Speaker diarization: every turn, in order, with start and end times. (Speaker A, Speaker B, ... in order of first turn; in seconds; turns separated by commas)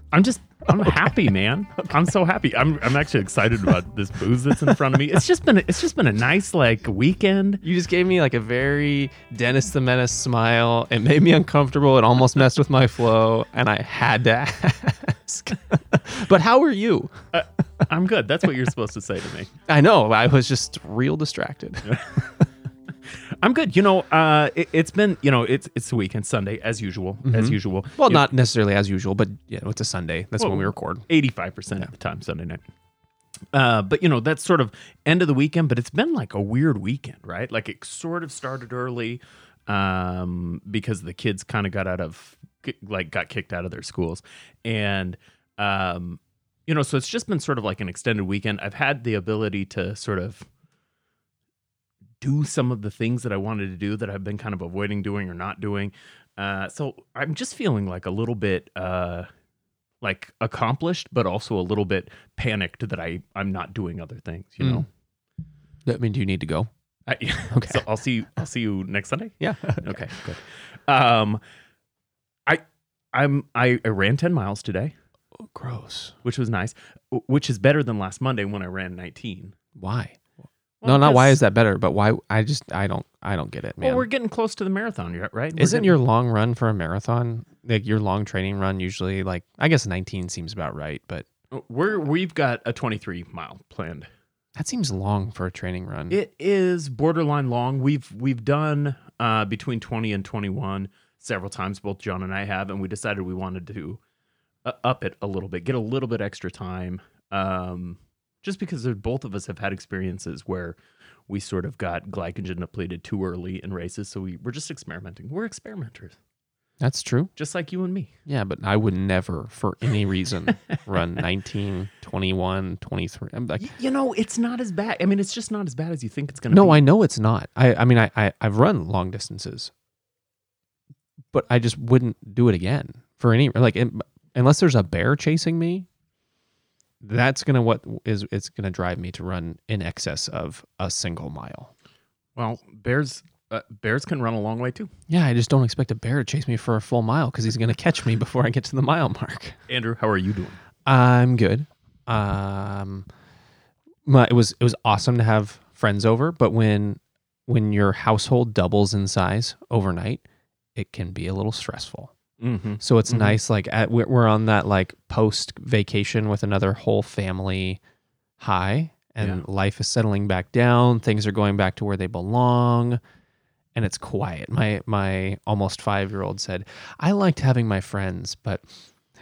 Speaker A: 0.1-7.6, Speaker B: 0.7-1.2, Speaker B: 7.6-17.1, Speaker A: 17.3-19.5, Speaker B: 19.7-22.4, Speaker A: 23.4-28.2, Speaker B: 27.2-31.1, Speaker A: 30.4-32.6, Speaker A: 33.5-50.5, Speaker A: 52.2-59.3, Speaker A: 60.0-64.8, Speaker B: 64.6-64.8, Speaker B: 65.8-66.7, Speaker A: 67.1-71.4, Speaker B: 67.5-67.8, Speaker B: 69.4-70.2, Speaker A: 72.5-74.9, Speaker B: 75.4-76.2, Speaker A: 76.2-79.6, Speaker B: 79.8-80.2, Speaker A: 80.8-81.4, Speaker B: 80.8-84.0, Speaker A: 83.8-85.9, Speaker B: 85.6-91.2, Speaker A: 91.5-94.1, Speaker B: 94.6-96.2, Speaker A: 96.1-104.0, Speaker A: 104.6-110.8, Speaker A: 111.3-116.2, Speaker B: 116.8-117.3, Speaker A: 117.3-118.1, Speaker B: 118.2-123.6, Speaker A: 123.6-126.8, Speaker B: 126.5-129.7, Speaker B: 131.3-135.9, Speaker B: 137.0-141.7, Speaker A: 142.3-144.9, Speaker B: 145.1-149.6, Speaker A: 149.7-150.6, Speaker B: 150.8-153.1, Speaker B: 154.1-160.2, Speaker B: 160.8-162.1, Speaker A: 162.4-163.4, Speaker B: 162.8-167.8, Speaker B: 168.4-173.0, Speaker B: 173.8-178.7